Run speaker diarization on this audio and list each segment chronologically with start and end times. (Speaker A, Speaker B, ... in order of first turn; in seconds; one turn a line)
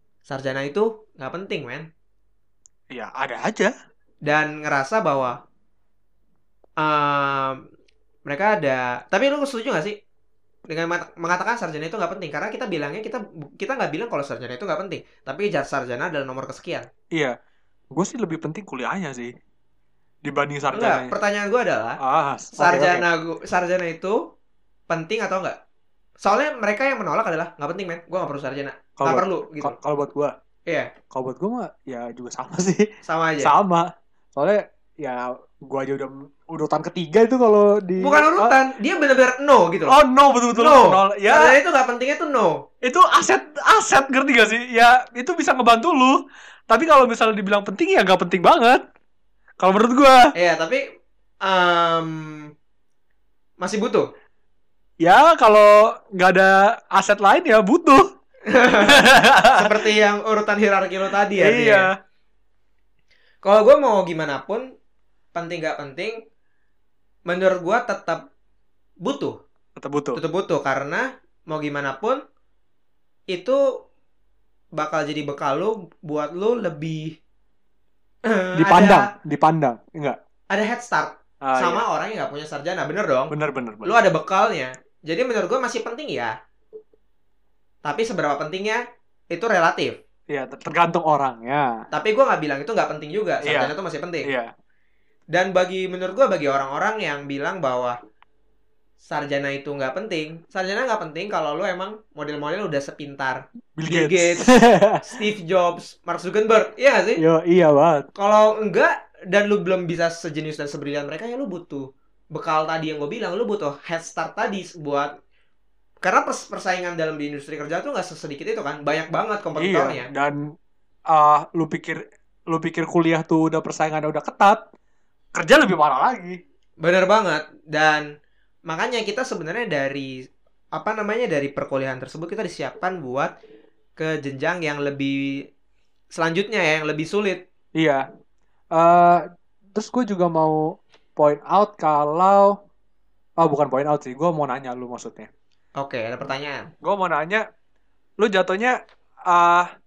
Speaker A: 0.2-1.9
Speaker B: 2.9-3.7
Speaker A: 4.2-5.4
Speaker A: 6.8-7.6
Speaker A: 8.2-9.9
Speaker A: 10.7-16.9
Speaker B: 17.9-19.3
Speaker B: 20.2-21.1
Speaker A: 20.7-22.0
Speaker B: 22.0-23.0
Speaker A: 22.6-24.2
Speaker A: 24.9-25.6
Speaker A: 26.2-29.7
Speaker B: 29.0-30.3
Speaker B: 31.1-32.9
Speaker A: 33.0-33.5
Speaker B: 33.4-38.5
Speaker A: 38.0-40.0
Speaker B: 39.9-41.5
Speaker A: 40.5-42.6
Speaker B: 42.8-48.8
Speaker B: 49.6-50.3
Speaker A: 50.3-50.8
Speaker A: 51.4-52.5
Speaker A: 53.6-54.0
Speaker B: 55.0-58.0
Speaker A: 58.5-61.9
Speaker B: 58.8-59.9
Speaker B: 61.3-61.9
Speaker A: 63.4-64.7
Speaker A: 65.3-66.2
Speaker A: 67.3-68.2
Speaker A: 69.0-69.4
Speaker B: 69.8-70.2
Speaker A: 70.2-72.2
Speaker A: 73.3-73.6
Speaker A: 74.8-77.2
Speaker A: 78.2-79.1
Speaker B: 78.5-80.2
Speaker A: 80.5-83.3
Speaker B: 81.4-81.8
Speaker B: 83.3-84.0
Speaker A: 83.8-86.3
Speaker A: 87.8-90.0
Speaker B: 90.3-91.8
Speaker A: 91.9-94.3
Speaker B: 93.4-93.7
Speaker B: 94.2-94.5
Speaker A: 95.3-98.0
Speaker A: 99.1-104.5
Speaker B: 103.8-105.0
Speaker A: 105.0-107.2
Speaker B: 107.2-108.1
Speaker A: 108.2-115.1
Speaker A: 116.0-120.1
Speaker B: 119.6-120.5
Speaker B: 121.1-124.6
Speaker B: 125.3-126.4
Speaker A: 126.8-128.0
Speaker A: 128.7-130.1
Speaker A: 130.7-133.3
Speaker A: 134.0-135.3
Speaker A: 136.1-137.4
Speaker B: 137.8-138.0
Speaker B: 138.7-142.6
Speaker B: 143.4-145.3
Speaker A: 145.8-146.7
Speaker B: 146.8-147.4
Speaker B: 148.2-149.7